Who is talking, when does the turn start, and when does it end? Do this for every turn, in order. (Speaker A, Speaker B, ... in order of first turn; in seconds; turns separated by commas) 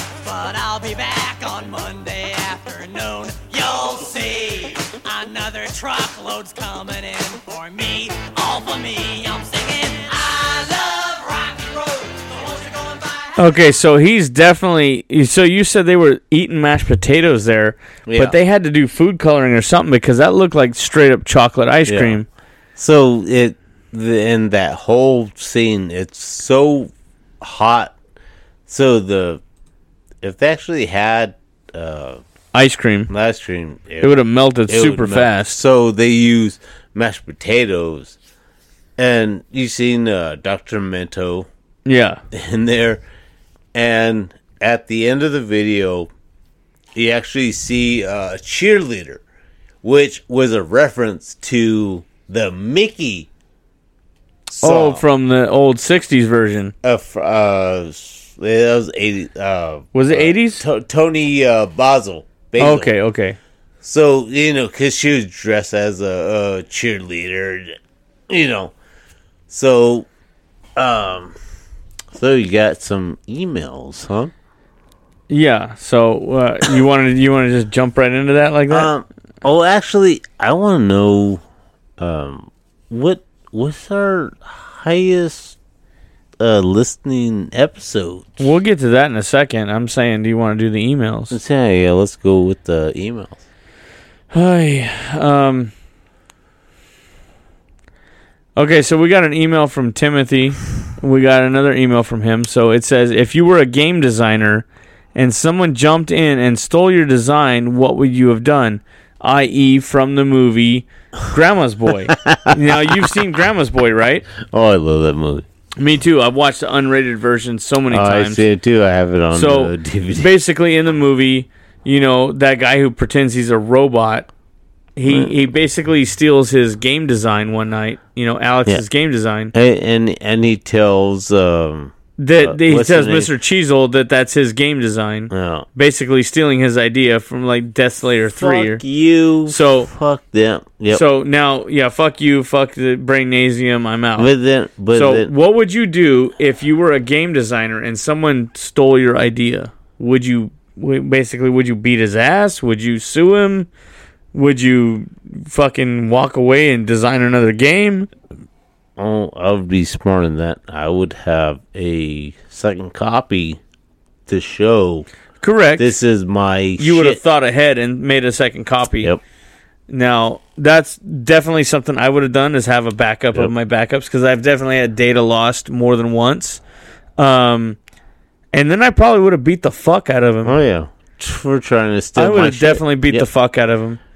Speaker A: 0.2-13.3, Speaker B: 13.4-22.3, Speaker C: 18.1-18.4, Speaker C: 21.9-22.2, Speaker C: 22.8-27.9, Speaker C: 28.7-29.4, Speaker C: 30.2-32.2, Speaker B: 32.5-33.1, Speaker C: 33.1-38.1, Speaker B: 34.0-35.6, Speaker C: 39.0-41.5, Speaker B: 41.9-42.2, Speaker C: 42.3-43.0, Speaker C: 43.7-46.1, Speaker C: 46.9-49.2, Speaker C: 49.8-53.3, Speaker C: 54.5-55.0, Speaker B: 54.6-56.7, Speaker C: 56.8-62.9, Speaker B: 59.9-60.6, Speaker B: 62.6-63.4, Speaker C: 63.8-67.8, Speaker C: 68.3-68.7, Speaker C: 69.5-70.1, Speaker C: 70.8-71.3, Speaker C: 72.1-74.3, Speaker B: 75.3-78.9, Speaker C: 78.7-81.4, Speaker C: 82.0-85.6, Speaker C: 86.4-88.5, Speaker B: 88.4-91.3, Speaker C: 91.3-93.4, Speaker B: 94.3-95.7, Speaker B: 98.5-114.2, Speaker C: 112.1-113.0, Speaker C: 114.4-115.5, Speaker B: 115.8-118.4, Speaker C: 117.9-120.3, Speaker B: 119.3-124.3, Speaker B: 125.0-129.5, Speaker C: 125.0-125.3, Speaker C: 129.5-133.3, Speaker B: 132.2-138.8, Speaker C: 135.3-135.7, Speaker C: 138.3-141.0, Speaker B: 139.4-139.9, Speaker B: 140.9-144.3, Speaker C: 144.2-145.3, Speaker B: 144.9-153.7, Speaker B: 154.3-158.1, Speaker C: 159.0-163.6, Speaker C: 164.3-165.1, Speaker B: 165.4-165.9, Speaker C: 165.8-167.2, Speaker B: 166.8-169.1, Speaker B: 169.9-176.6, Speaker B: 177.2-177.8, Speaker B: 178.5-180.5, Speaker C: 180.4-183.3, Speaker B: 182.2-184.0